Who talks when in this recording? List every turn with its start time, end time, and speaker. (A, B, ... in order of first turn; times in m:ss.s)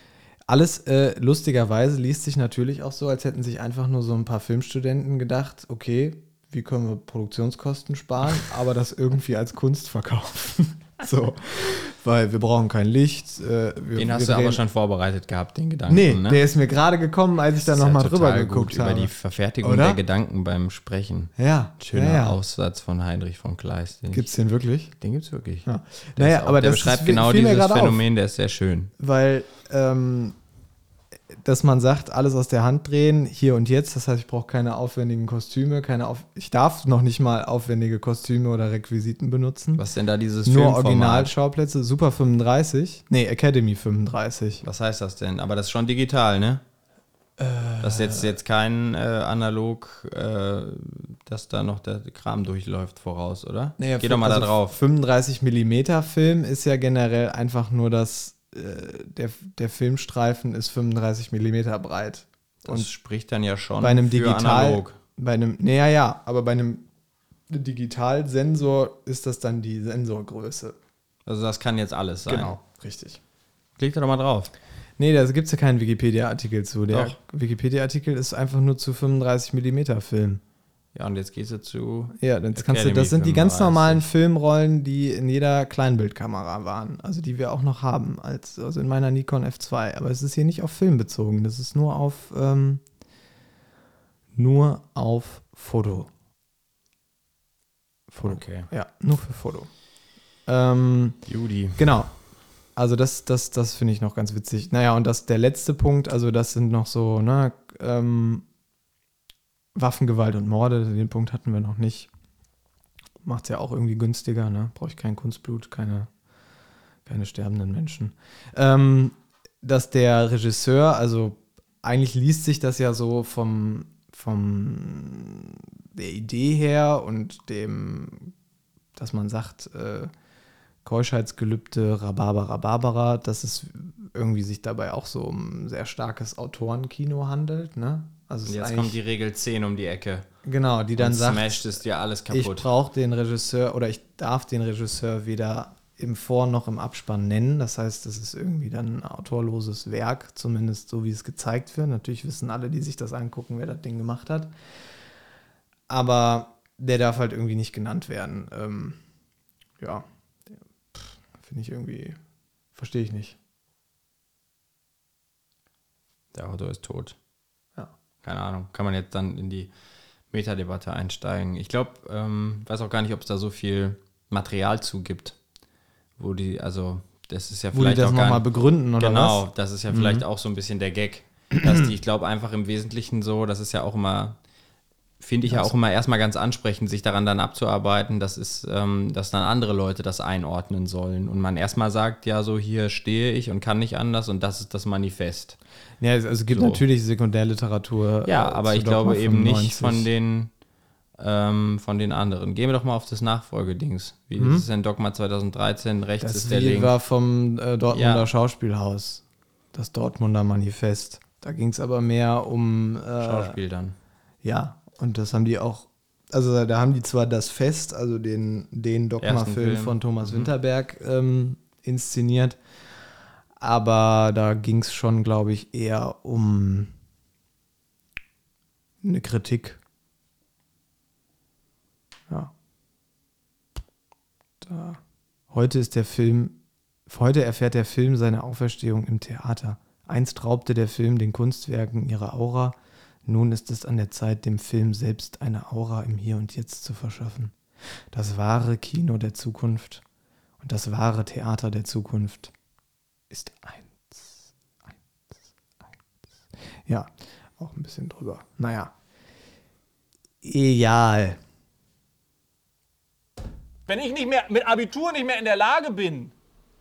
0:00.5-0:14.6 A
0:13.9-0:16.4 B
0:15.9-0:20.0 A
0:17.6-0:24.3 B
0:21.4-0:22.4 A
0:24.1-0:24.9 A
0:25.0-0:25.6 B
0:25.6-0:28.0 A
0:26.2-0:28.9 B
0:29.0-0:30.4 A
0:31.3-0:39.8 A
0:39.8-0:41.3 B
0:40.4-0:44.6 A
0:44.6-0:46.6 B
0:47.4-0:48.3 A
0:47.8-0:54.7 B
0:53.8-1:02.9 A
1:02.6-1:05.0 B
1:03.8-1:06.9 A
1:07.5-1:10.8 A
1:11.2-1:12.6 B
1:12.2-1:13.2 A
1:13.8-1:14.5 B
1:15.0-1:20.4 A
1:16.9-1:17.2 B
1:20.9-1:24.0 B
1:22.2-1:32.8 A
1:34.3-1:36.1 A
1:38.1-1:39.8 A
1:38.2-1:38.7 B
1:40.4-1:41.2 A
1:41.2-1:41.9 B
1:41.8-1:42.2 A
1:42.7-1:48.4 A
1:49.7-1:52.1 A
1:53.2-1:56.1 A
1:57.0-2:08.3 A
2:09.0-2:10.1 A
2:10.8-2:19.0 A
2:18.4-2:20.3 B
2:20.4-2:21.8 A
2:21.0-2:22.7 B
2:22.3-2:34.5 A
2:35.9-2:39.0 A
2:39.8-2:42.2 A
2:42.7-2:43.4 A
2:46.3-2:47.2 B
2:48.2-2:49.7 B
2:50.3-2:55.4 B
2:56.2-2:58.4 B
2:57.7-3:00.2 A
2:59.0-3:04.4 B
3:05.2-3:15.6 B
3:05.4-3:05.7 A
3:16.0-3:20.1 A
3:16.5-3:16.8 B
3:18.2-3:20.5 B
3:21.2-3:26.9 B
3:24.4-3:24.6 A
3:26.2-3:33.6 A
3:27.9-3:28.3 B
3:33.2-3:34.0 B
3:34.4-3:42.6 A
3:39.2-3:40.5 B
3:43.6-3:46.9 A
3:49.0-3:49.8 A
3:54.6-4:07.6 A
4:08.1-4:10.0 A
4:10.6-4:12.5 A
4:13.3-4:16.0 A
4:16.8-4:18.9 A
4:20.4-4:21.4 A
4:23.9-4:26.3 C